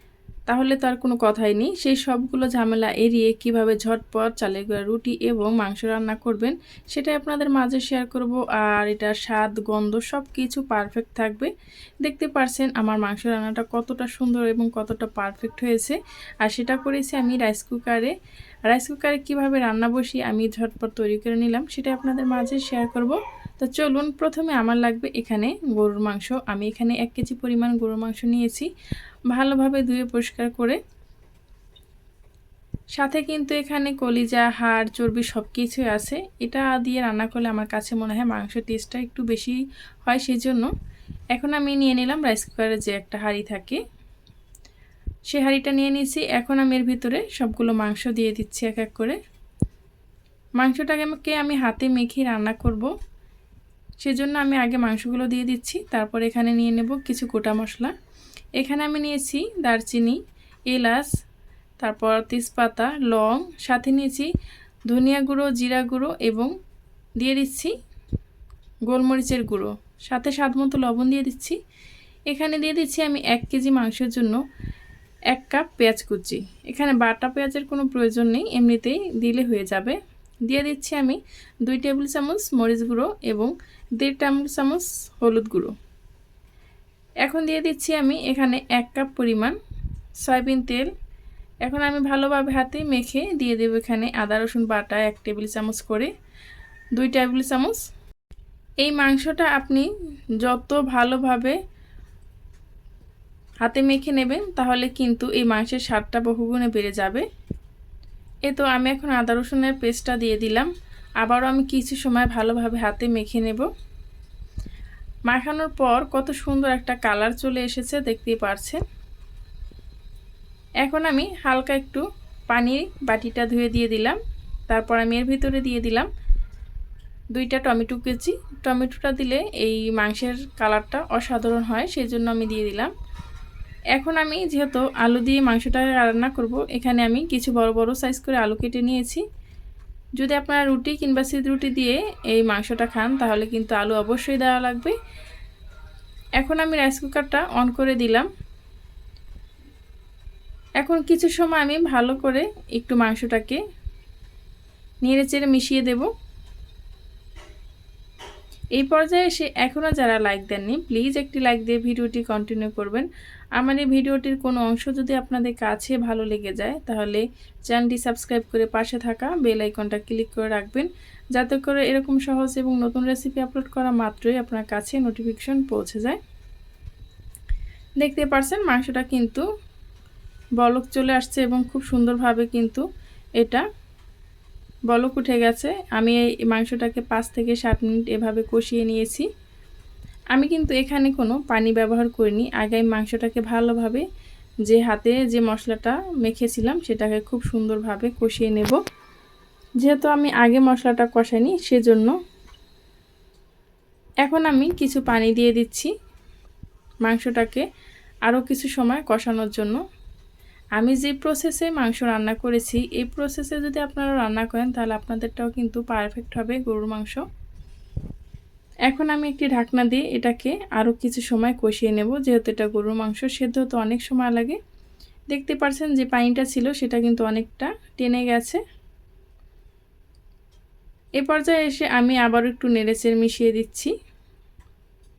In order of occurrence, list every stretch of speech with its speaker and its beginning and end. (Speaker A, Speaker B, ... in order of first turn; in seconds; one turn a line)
Speaker A: 0.5-11.5
Speaker A: 12.0-18.1
Speaker A: 18.7-28.7
Speaker A: 29.3-30.8
Speaker A: 32.9-40.7
Speaker A: 41.3-43.8
Speaker A: 45.3-49.2
Speaker A: 50.6-52.9
Speaker A: 54.0-57.9
Speaker A: 58.6-61.1
Speaker A: 61.8-64.3
Speaker A: 64.9-66.5
Speaker A: 67.2-67.7
Speaker A: 68.9-71.6
Speaker A: 72.3-74.4
Speaker A: 75.3-85.7
Speaker A: 87.2-89.6
Speaker A: 90.2-90.9
Speaker A: 91.6-96.1
Speaker A: 97.0-97.8
Speaker A: 98.8-99.9
Speaker A: 100.4-101.6
Speaker A: 103.6-107.2
Speaker A: 108.5-110.7
Speaker A: 111.2-113.7
Speaker A: 115.3-118.8
Speaker A: 120.8-126.1
Speaker A: 127.3-132.9
Speaker A: 133.9-139.2
Speaker A: 140.2-144.9
Speaker A: 146.4-148.3
Speaker A: 150.8-153.6
Speaker A: 155.0-156.1
Speaker A: 158.8-176.2
Speaker A: 178.0-179.4
Speaker A: 180.6-182.8
Speaker A: 183.4-183.6
Speaker A: 184.9-189.3
Speaker A: 190.3-194.0
Speaker A: 194.7-198.8
Speaker A: 199.8-202.1
Speaker A: 204.2-205.9
Speaker A: 207.0-207.7
Speaker A: 208.3-209.8
Speaker A: 210.8-217.2
Speaker A: 218.9-224.6
Speaker A: 225.3-228.6
Speaker A: 231.2-233.9